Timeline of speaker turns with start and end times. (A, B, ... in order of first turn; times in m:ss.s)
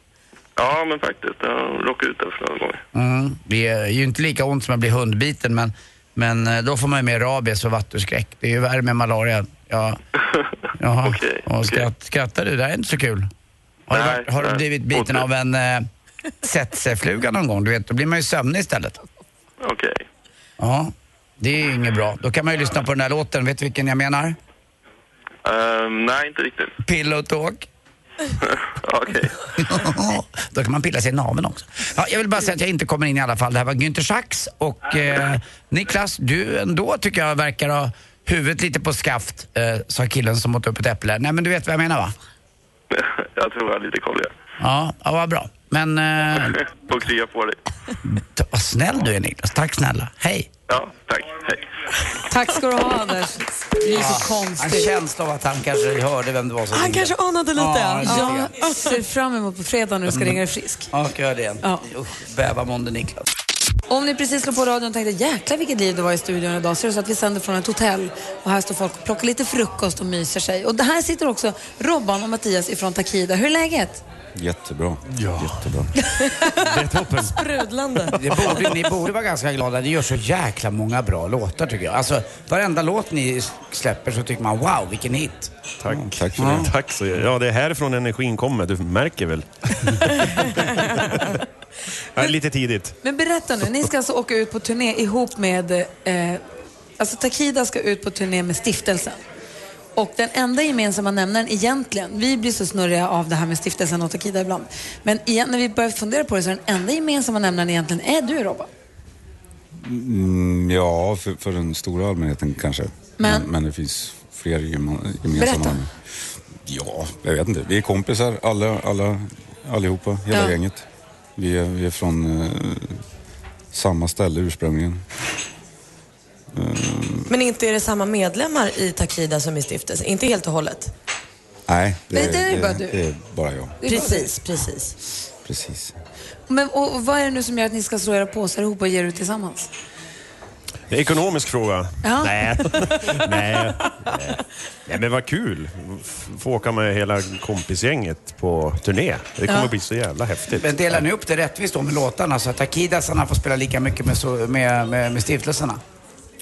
0:00.6-0:02.8 A
0:02.9-0:10.0 B
0:10.8-0:13.3 B
0:11.0-0:11.8 A
0:13.9-0:15.9 B
0:13.9-0:15.2 A
0:16.4-0:19.0 B
0:19.6-0:20.0 A
0:20.6-0:24.4 B
0:25.4-0:26.7 A
0:26.8-0:27.6 B
0:28.4-0:29.3 A
0:29.6-0:42.1 B
0:42.9-0:44.3 A
0:44.6-0:46.6 B
0:46.6-0:47.6 A
0:48.1-0:50.5 B
0:50.7-0:51.6 A
0:52.3-0:54.9 C
0:53.9-0:58.5 B
0:56.7-0:58.8 D
0:58.0-1:00.9 C
1:00.1-1:03.2 B
1:03.9-1:14.0 C
1:14.4-1:15.9 E
1:15.1-1:15.6 F
1:16.1-1:16.6 C
1:16.6-1:17.4 F
1:17.2-1:18.7 D
1:18.1-1:25.5 B
1:25.8-1:31.2 F
1:25.9-1:26.7 E
1:26.4-1:26.7 B
1:32.1-1:33.0 F
1:33.0-1:36.4 C
1:37.0-1:39.2 C
1:40.0-1:48.7 C
1:49.7-1:55.9 E
1:53.2-1:53.5 C
1:55.4-1:55.8 C
1:56.6-2:03.0 E
2:00.3-2:00.6 C
2:03.7-2:05.0 E
2:06.5-2:07.3 E
2:07.3-2:10.9 D
2:11.7-2:13.8 E
2:12.1-2:13.0 C
2:13.8-2:14.3 C
2:13.9-2:14.9 D
2:15.4-2:15.9 E
2:16.5-2:19.7 C
2:20.9-2:30.7 F
2:22.0-2:23.3 C
2:29.5-2:29.7 C
2:30.6-2:35.8 B